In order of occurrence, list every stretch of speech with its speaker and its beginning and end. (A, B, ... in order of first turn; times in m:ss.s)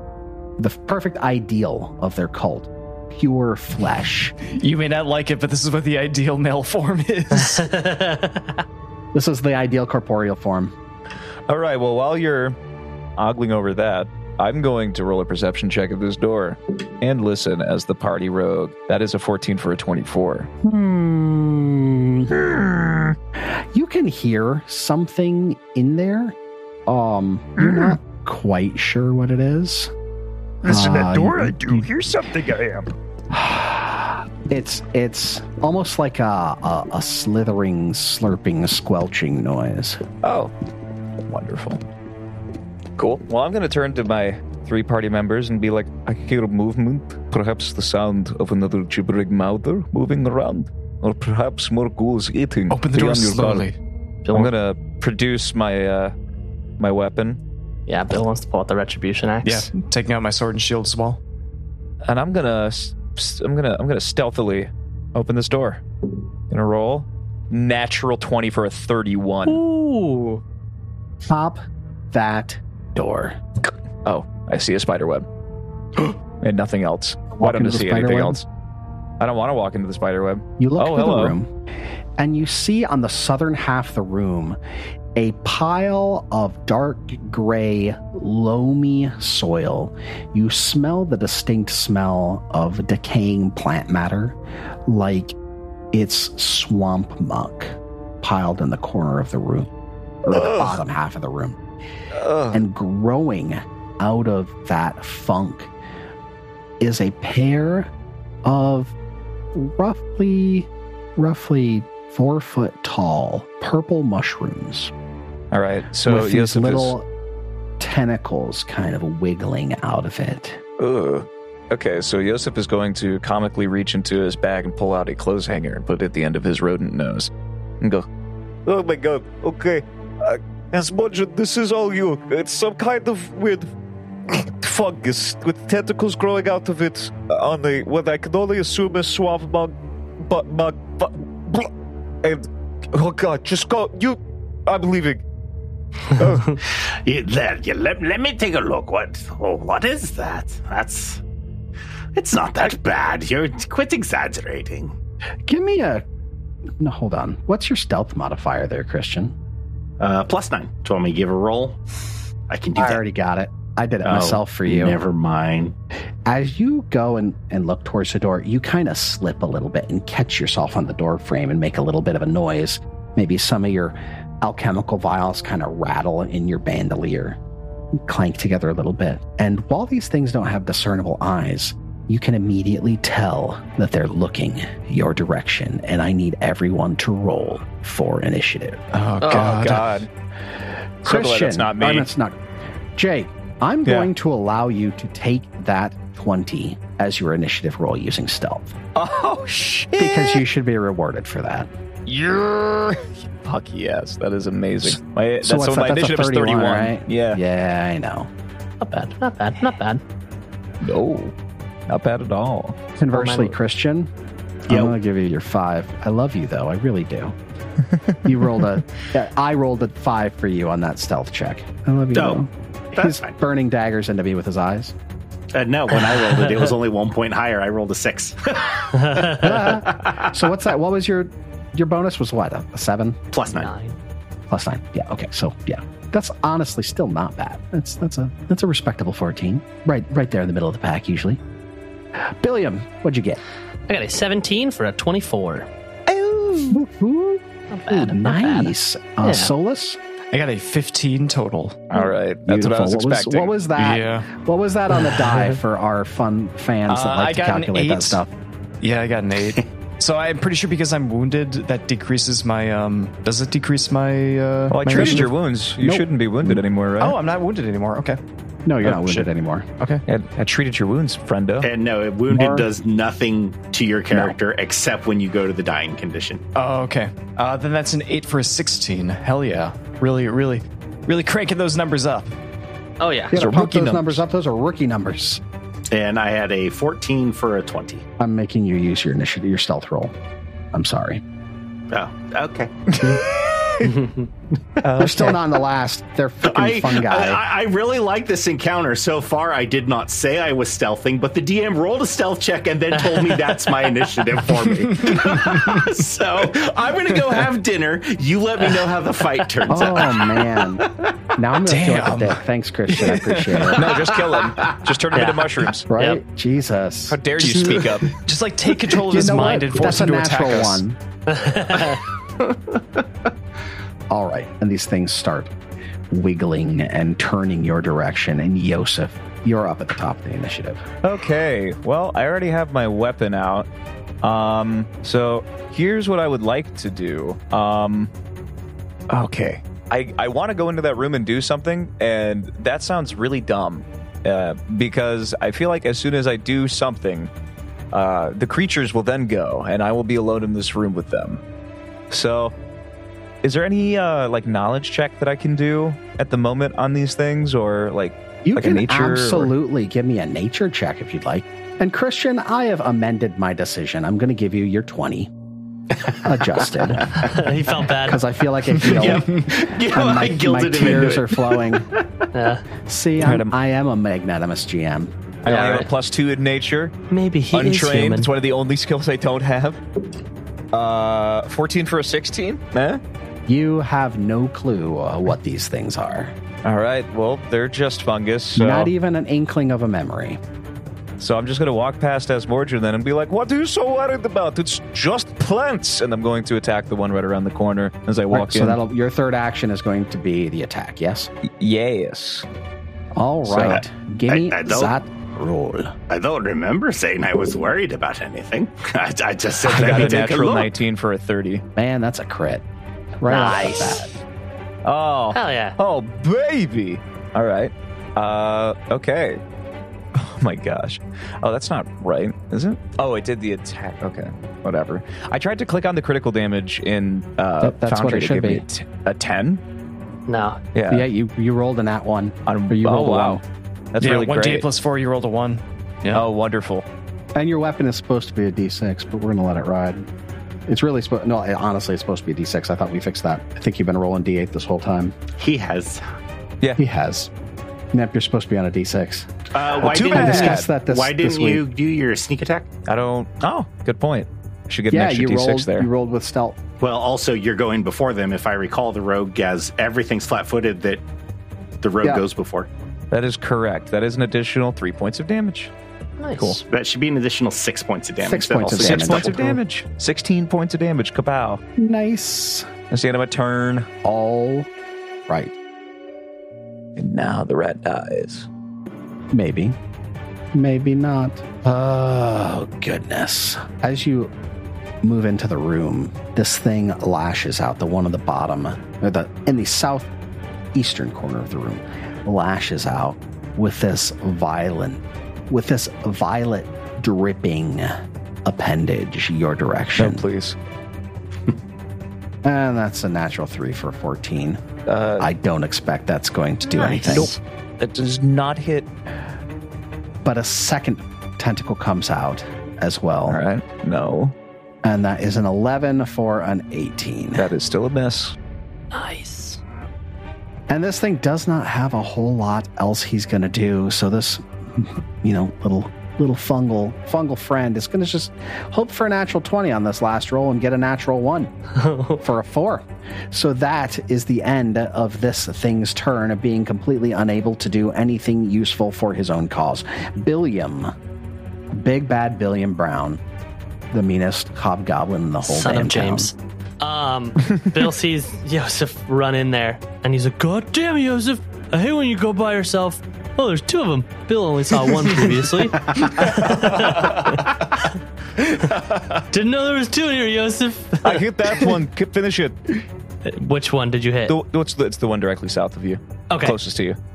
0:00.6-0:04.3 A
0:04.5-0:07.7 B
0:07.4-0:08.6 C
0:09.1-0:10.7 A
0:11.5-0:12.6 D
0:13.2-0:20.5 D
0:20.6-0:22.4 A
0:22.3-0:23.1 D
0:23.4-0:29.9 A
0:27.6-0:28.0 D
0:30.6-0:32.9 D
0:30.6-0:31.8 A
0:33.3-0:40.0 A
0:40.2-0:40.5 D
0:41.3-0:41.8 D
0:43.0-0:53.7 D
0:52.7-0:53.8 B
0:54.2-0:54.5 C
0:54.3-0:56.1 D
0:56.8-0:57.4 D
0:57.9-0:59.7 C
0:59.4-1:01.2 B
1:02.0-1:05.8 D
1:06.5-1:09.6 D
1:09.4-1:10.4 C
1:11.2-1:11.6 A
1:12.1-1:13.4 A
1:14.0-1:15.2 D
1:16.4-1:18.4 D
1:17.4-1:18.4 A
1:19.2-1:21.4 D
1:20.6-1:21.5 A
1:22.2-1:24.6 A
1:25.1-1:35.3 A
1:35.9-1:39.7 A
1:40.2-1:41.6 A
1:40.3-1:40.8 D
1:42.1-1:42.6 D
1:42.5-1:45.7 A
1:46.8-1:47.9 A
1:48.4-1:48.9 A
1:49.5-1:54.9 A
1:55.5-1:56.9 D
1:56.0-1:57.0 A
1:57.8-2:00.6 A
2:00.8-2:07.3 D
2:07.8-2:08.0 D
2:08.6-2:13.7 D
2:14.3-2:21.7 D
2:22.2-2:25.2 D
2:26.1-2:26.6 D
2:26.6-2:31.2 E
2:32.1-2:34.9 E
2:35.5-2:36.0 A
2:36.8-2:39.3 A
2:40.0-2:41.8 E
2:42.5-2:43.0 E
2:42.8-2:45.0 A
2:44.0-2:45.7 E
2:46.2-2:57.4 A
2:58.0-3:08.8 A
3:08.9-3:09.9 B
3:09.2-3:10.1 D
3:11.0-3:12.4 A
3:11.0-3:12.1 D
3:13.0-3:18.8 A
3:18.9-3:20.4 D
3:20.0-3:21.7 A
3:22.1-3:27.4 D
3:25.4-3:28.3 A
3:28.8-3:30.0 C
3:30.8-3:31.3 D
3:31.9-3:32.8 D
3:33.0-3:34.1 A
3:33.1-3:33.6 C
3:34.6-3:37.4 A
3:34.7-3:34.9 E
3:38.2-3:44.9 A
3:42.1-3:42.4 E
3:42.9-3:43.4 E
3:45.5-3:50.3 E
3:49.0-3:49.4 C
3:49.3-3:53.2 A
3:53.3-3:53.7 E
3:53.5-3:54.0 C
3:54.5-4:01.4 A
4:02.2-4:03.4 A
4:03.9-4:05.7 C
4:06.6-4:10.0 A
4:07.7-4:09.5 C
4:10.3-4:11.9 B
4:11.9-4:13.5 D
4:12.4-4:18.3 A
4:13.8-4:14.3 B
4:16.9-4:18.2 B
4:18.8-4:25.3 B
4:24.7-4:27.2 D
4:24.9-4:26.6 A
4:27.0-4:28.2 B
4:28.6-4:29.7 A
4:28.8-4:29.3 B
4:29.8-4:30.0 B
4:30.1-4:31.7 D
4:31.6-4:36.4 E
4:32.3-4:32.7 A
4:34.1-4:34.4 A
4:36.5-4:42.3 B
4:43.0-4:43.3 C
4:43.3-4:45.4 A
4:43.3-4:44.2 D
4:45.9-4:48.0 E
4:48.2-4:50.1 A
4:50.7-4:51.2 A
4:51.9-4:53.2 E
4:53.0-4:53.9 D
4:53.9-4:54.2 C
4:54.8-4:55.4 D
4:55.0-4:57.4 A
4:56.4-5:10.5 E
5:04.9-5:05.8 B
5:09.7-5:10.8 A
5:11.4-5:14.0 A
5:11.6-5:13.9 B
5:13.7-5:15.9 D
5:15.1-5:16.2 C
5:15.9-5:17.5 A
5:17.1-5:18.2 D
5:17.5-5:20.8 B
5:19.1-5:21.0 A
5:21.3-5:22.0 C
5:24.1-5:25.5 A
5:26.1-5:30.8 A
5:31.0-5:33.7 D
5:34.2-5:38.1 D
5:39.1-5:47.3 D
5:47.9-5:51.4 D
5:52.1-5:52.5 D
5:53.4-5:59.5 D
5:58.4-6:05.3 A
6:06.2-6:07.4 A
6:07.2-6:08.2 C
6:07.9-6:11.9 A
6:08.8-6:11.8 E
6:12.3-6:12.6 C
6:12.8-6:15.1 A
6:13.2-6:13.5 D
6:15.4-6:16.9 D
6:15.4-6:15.9 C
6:17.1-6:18.3 C
6:17.5-6:19.8 D
6:20.7-6:23.0 D
6:23.5-6:26.3 A
6:26.6-6:28.9 D
6:28.6-6:30.4 A
6:31.2-6:38.8 D
6:38.3-6:41.3 A
6:41.4-6:42.4 D
6:43.2-6:45.9 A
6:43.4-6:43.8 D
6:44.3-6:44.9 E
6:46.0-6:50.7 E
6:49.6-6:51.6 D
6:51.8-6:52.6 A
6:53.2-6:54.1 A
6:53.3-6:54.1 C
6:54.8-6:59.4 D
6:55.3-6:55.8 C
7:00.1-7:09.6 D
7:07.6-7:08.6 A
7:10.3-7:10.6 C
7:10.7-7:11.1 D
7:10.9-7:13.4 A
7:12.5-7:13.4 D
7:13.9-7:14.7 D
7:14.0-7:16.3 B
7:16.1-7:16.8 D
7:17.3-7:20.1 A
7:20.7-7:25.1 A
7:25.4-7:26.0 E
7:26.8-7:27.3 A
7:27.9-7:31.6 A
7:29.5-7:32.7 E
7:29.8-7:30.7 D
7:32.9-7:35.9 D
7:34.9-7:36.6 A
7:36.8-7:41.0 E
7:41.8-7:42.7 E
7:43.1-7:45.7 D
7:46.2-7:46.6 C
7:46.7-7:49.4 E
7:48.2-7:49.6 A
7:48.8-7:51.6 D
7:51.8-7:52.7 A
7:52.9-7:53.9 D
7:54.0-7:54.7 A
7:55.3-7:55.5 A
7:57.0-7:58.5 D
7:59.3-7:59.8 A
8:00.5-8:04.3 A
8:05.0-8:10.1 A
8:10.7-8:20.2 A
8:20.0-8:20.6 D
8:22.4-8:24.6 A
8:24.8-8:25.3 D
8:25.2-8:27.3 A
8:26.8-8:27.3 C
8:26.8-8:28.9 D
8:30.2-8:33.4 A
8:33.3-8:34.3 D
8:34.8-8:37.5 A
8:37.4-8:38.3 D
8:38.9-8:39.6 C
8:40.7-8:51.5 A
8:51.7-8:52.2 C
8:52.2-9:00.9 A
9:01.7-9:03.2 A
9:03.9-9:06.3 A
9:05.4-9:17.9 C
9:16.2-9:17.4 B
9:18.4-9:19.2 B
9:19.3-9:21.7 C
9:21.0-9:22.7 D
9:23.2-9:24.3 C
9:24.3-9:27.0 D
9:26.3-9:26.6 C